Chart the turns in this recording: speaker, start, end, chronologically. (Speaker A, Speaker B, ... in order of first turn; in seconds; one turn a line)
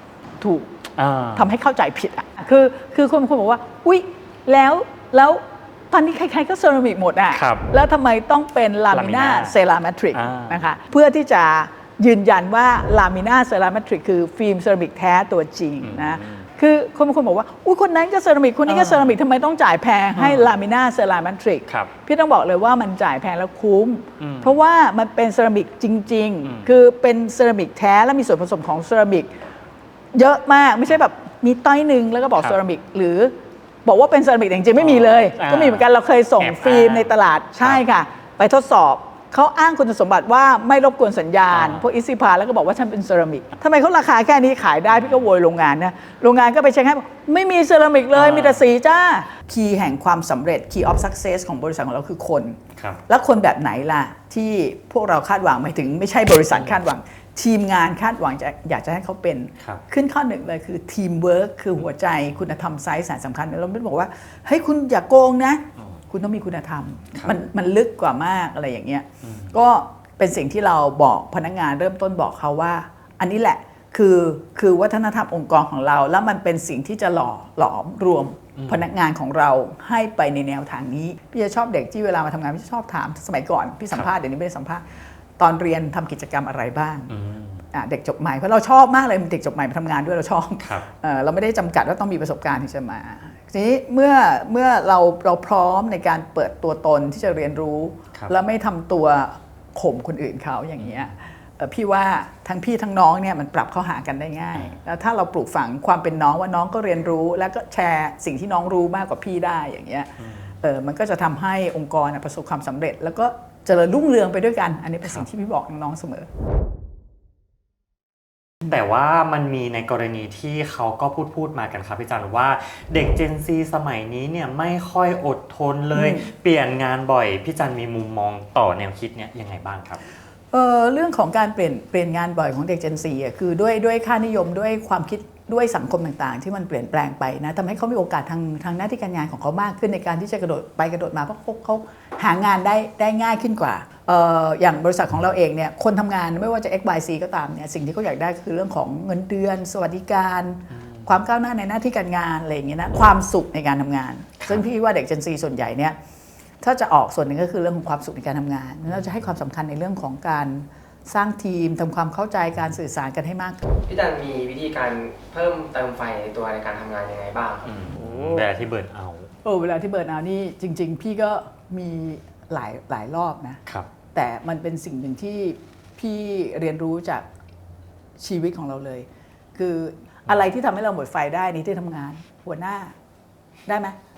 Speaker A: 0.4-0.8
Speaker B: 1.0-1.5
Speaker A: 1.4-29.3
Speaker B: 7.3-7.7
Speaker B: 8.9-9.6
Speaker B: 10.1-10.6
Speaker B: 15.8-16.5
Speaker B: 18.7-19.1
Speaker B: 20.1-20.5
Speaker B: 24.2-24.6
Speaker B: 26.4-26.7
Speaker A: 30.1-33.3
Speaker A: 33.9-84.8
Speaker B: 34.8-35.9
Speaker B: 36.4-37.8
Speaker B: 41.5-41.8
Speaker B: 48.1-48.6
Speaker B: 56.5-56.8
Speaker B: 69.2-69.6
Speaker B: 78.6-78.9
Speaker A: 85.4-87.1
Speaker B: 87.1-87.7
Speaker A: 87.7-116.3
Speaker B: 90.6-90.9
Speaker B: 100.8-101.1
Speaker B: 110.2-110.5
Speaker B: 118.7-130.0
Speaker A: 125.9-126.3
Speaker A: 130.5-156.0
Speaker B: 150.7-151.1
Speaker A: 156.6-163.6
Speaker B: 158.9-159.2
Speaker C: 163.8-167.7
Speaker B: 167.6-169.3
Speaker A: 168.0-168.4
Speaker A: 169.4-173.6
Speaker A: 174.1-177.3
Speaker A: 178.2-182.9
Speaker A: 183.7-184.0